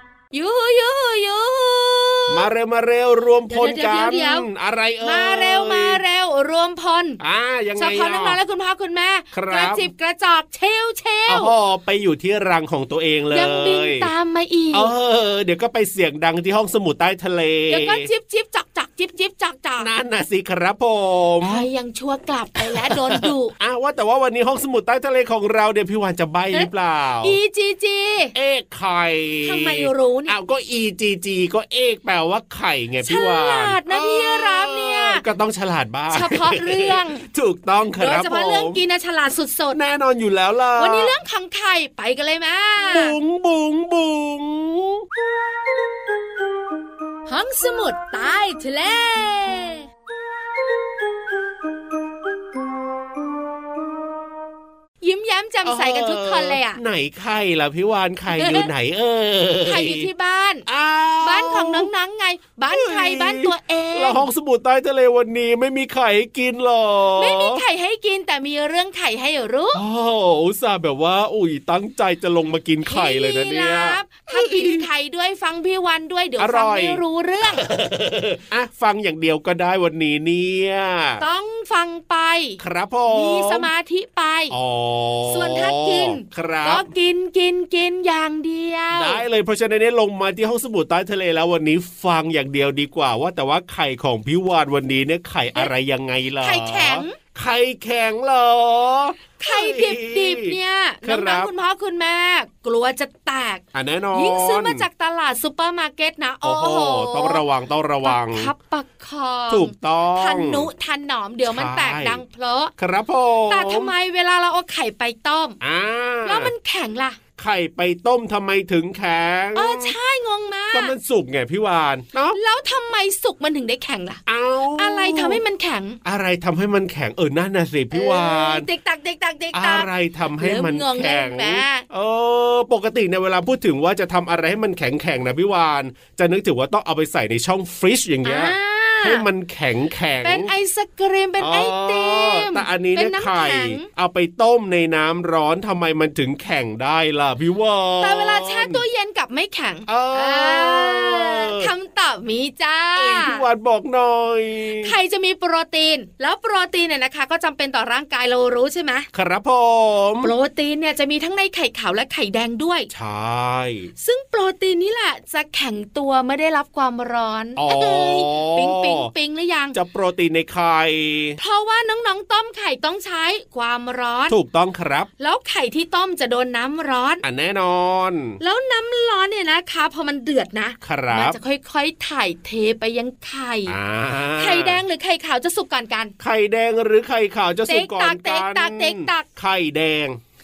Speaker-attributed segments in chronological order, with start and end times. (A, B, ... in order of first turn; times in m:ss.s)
0:00.3-0:02.5 A
0:02.3-0:06.0 B
0:03.5-0:04.5 A
0:05.0-0:07.2 A
0:07.2-0:08.4 B
0:07.8-0:11.5 A
0:09.3-0:09.9 B
0:11.3-0:14.1 B
0:13.3-0:14.9 A
0:14.7-0:18.1 B
0:17.7-0:19.9 A
0:19.8-0:21.7 B
0:21.4-0:23.5 A
0:22.7-0:27.4 B
0:27.2-0:28.3 A
0:28.3-0:38.8 B
0:29.4-0:30.4 A
0:33.1-0:35.2 A
0:36.1-0:37.2 A
0:38.0-0:39.8 A
0:39.7-0:41.1 B
0:40.8-0:43.2 A
0:42.9-0:45.0 B
0:47.3-0:49.8 A
0:55.0-0:56.8 A
0:55.6-1:00.1 B
0:58.4-0:58.7 A
0:59.7-1:00.6 A
1:00.7-1:01.9 B
1:01.2-1:04.2 A
1:02.7-1:07.6 B
1:07.2-1:09.8 A
1:09.8-1:14.8 B
1:12.9-1:17.7 A
1:16.4-1:17.0 B
1:17.6-1:21.2 B
1:21.2-1:24.5 A
1:22.6-1:23.7 B
1:24.5-1:26.9 B
1:25.3-1:29.2 A
1:28.9-1:41.5 B
1:36.4-1:37.2 A
1:39.4-1:47.4 A
1:43.8-1:44.8 B
1:46.4-1:48.5 B
1:48.0-1:52.7 A
1:49.5-1:50.7 B
1:51.4-1:52.2 B
1:52.8-1:53.9 B
1:53.5-1:55.6 A
1:55.6-1:56.5 B
1:56.2-1:57.2 A
1:57.4-2:00.0 B
1:59.6-2:00.9 A
2:00.7-2:02.4 B
2:02.3-2:04.2 A
2:04.3-2:05.4 B
2:04.8-2:06.0 A
2:06.0-2:08.7 B
2:07.9-2:11.8 A
2:09.5-2:20.5 B
2:18.2-2:19.2 A
2:20.2-2:23.9 A
2:21.4-2:28.8 B
2:28.0-2:33.4 A
2:29.9-2:31.7 B
2:33.0-2:34.9 B
2:34.8-2:39.1 A
2:39.1-2:40.3 B
2:40.2-2:42.9 A
2:42.9-2:43.9 B
2:44.0-2:49.8 A
2:47.6-2:49.1 B
2:49.7-2:51.4 B
2:51.4-2:54.4 A
2:54.3-2:55.1 B
2:55.2-2:57.2 A
2:57.2-2:58.4 B
2:58.4-3:03.8 A
3:00.8-3:01.4 B
3:03.7-3:04.8 B
3:04.4-3:06.1 A
3:06.2-3:10.2 B
3:07.7-3:09.3 A